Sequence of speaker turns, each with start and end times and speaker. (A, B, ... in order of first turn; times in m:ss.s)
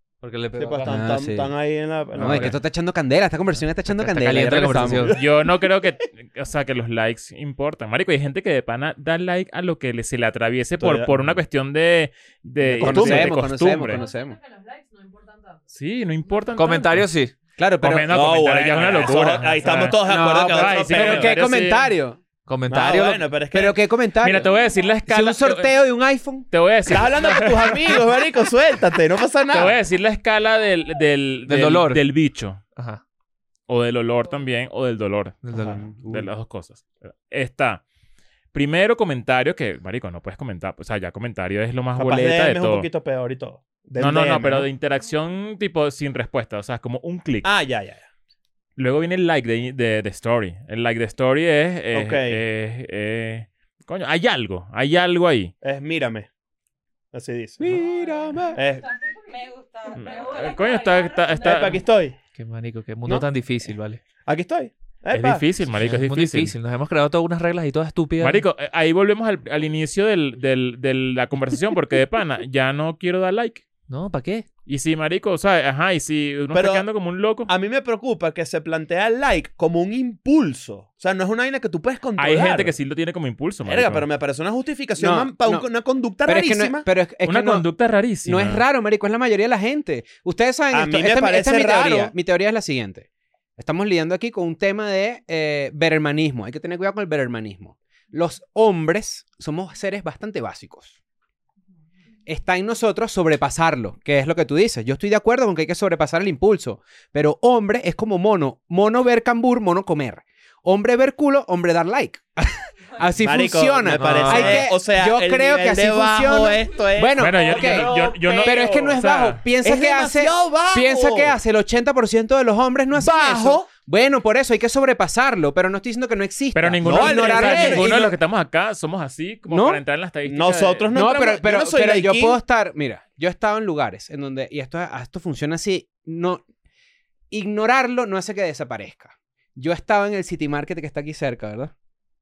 0:00.2-0:01.0 A
0:00.6-0:02.6 B
0:00.9-0:01.5 C
0:02.2-0:05.1 C
0:02.2-0:02.6 A
0:03.9-0:05.2 A
0:04.8-0:05.3 B
0:05.2-0:14.0 D
0:10.8-0:11.4 B
0:12.7-0:14.4 C
0:12.8-0:13.4 B
0:13.9-0:15.6 E
0:15.7-0:17.1 D
0:16.2-0:16.8 E
0:16.6-0:17.3 A
0:17.6-0:18.1 C
0:17.8-0:21.9 D
0:18.1-0:21.4 B
0:20.0-0:22.2 C
0:22.5-0:23.2 A
0:22.7-0:23.8 B
0:23.5-0:24.5 C
0:24.2-0:25.8 D
0:24.4-0:25.0 E
0:25.1-0:26.5 C
0:26.5-0:28.1 D
0:26.9-0:29.8 B
0:29.5-0:32.6 D
0:31.5-0:32.0 A
0:32.8-0:33.0 A
0:33.7-0:35.4 D
0:35.4-0:36.3 A
0:35.9-0:37.8 D
0:38.5-0:42.9 D
0:42.0-0:44.7 B
0:44.0-0:47.5 D
0:47.4-0:48.1 B
0:48.8-0:55.5 D
0:51.9-0:52.4 B
0:55.6-0:56.3 B
0:57.1-0:57.8 B
0:57.6-0:58.6 C
0:58.6-0:58.9 B
0:59.2-1:01.8 F
1:00.0-1:01.8 D
1:00.0-1:00.8 E
1:01.4-1:02.2 B
1:02.4-1:04.0 A
1:04.3-1:05.4 B
1:05.1-1:06.5 D
1:05.8-1:08.4 A
1:08.2-1:13.6 D
1:13.9-1:14.4 A
1:14.7-1:17.5 D
1:16.5-1:16.9 B
1:17.5-1:22.7 B
1:22.2-1:24.1 D
1:23.6-1:26.9 B
1:25.0-1:25.7 C
1:26.2-1:27.7 C
1:27.2-1:28.6 D
1:28.2-1:33.1 C
1:30.7-1:32.1 B
1:33.6-1:41.0 C
1:42.3-2:08.0 C
1:53.2-1:59.0 B
1:54.0-1:54.7 A
1:57.2-1:59.4 D
1:59.6-2:01.4 B
2:02.9-2:03.7 B
2:06.5-2:10.9 D
2:06.8-2:08.2 B
2:09.5-2:09.8 C
2:10.3-2:12.4 B
2:10.9-2:16.4 C
2:17.3-2:21.7 C